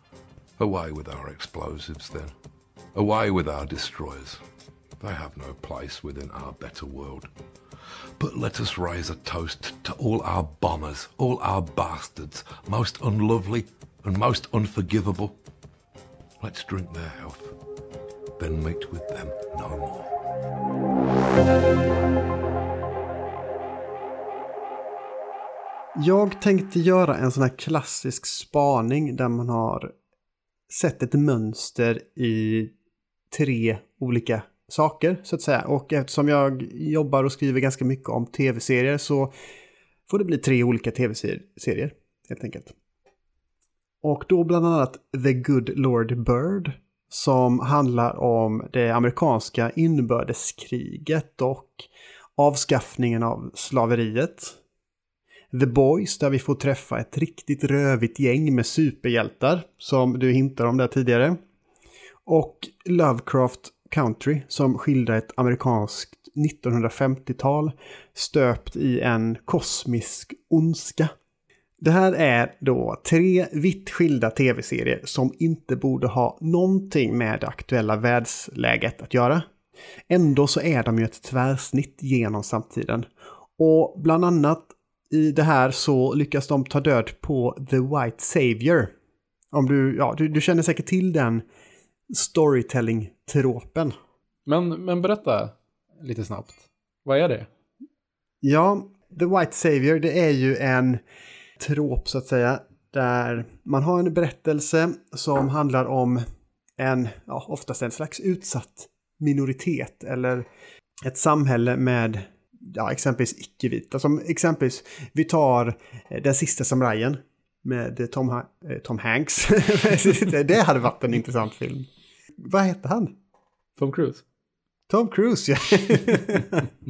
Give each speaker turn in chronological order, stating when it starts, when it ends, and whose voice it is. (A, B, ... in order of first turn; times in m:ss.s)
0:00.6-0:02.3 A
0:02.9-0:04.4 A
0:05.0-0:07.3 A
0:08.2-0:15.3 A
0:16.4-0:17.6 A
0:18.4-0:20.1 A
0:26.0-0:29.9 B
0:30.7-0:32.7 B
0:33.3-0:39.3 B
0:40.1-0:42.7 B
0:44.0-0:54.6 B
0:55.5-1:01.4 B
1:02.2-1:11.1 B
1:11.8-1:19.4 B
1:20.1-1:28.9 B
1:29.5-1:31.4 B
1:32.1-1:34.0 B
1:34.4-1:37.5 C
1:38.4-1:41.0 B
1:41.6-1:46.2 B
1:46.8-1:50.4 B
1:51.0-2:01.9 B
2:02.4-2:03.1 B
2:03.8-2:04.2 C
2:04.9-2:06.7 B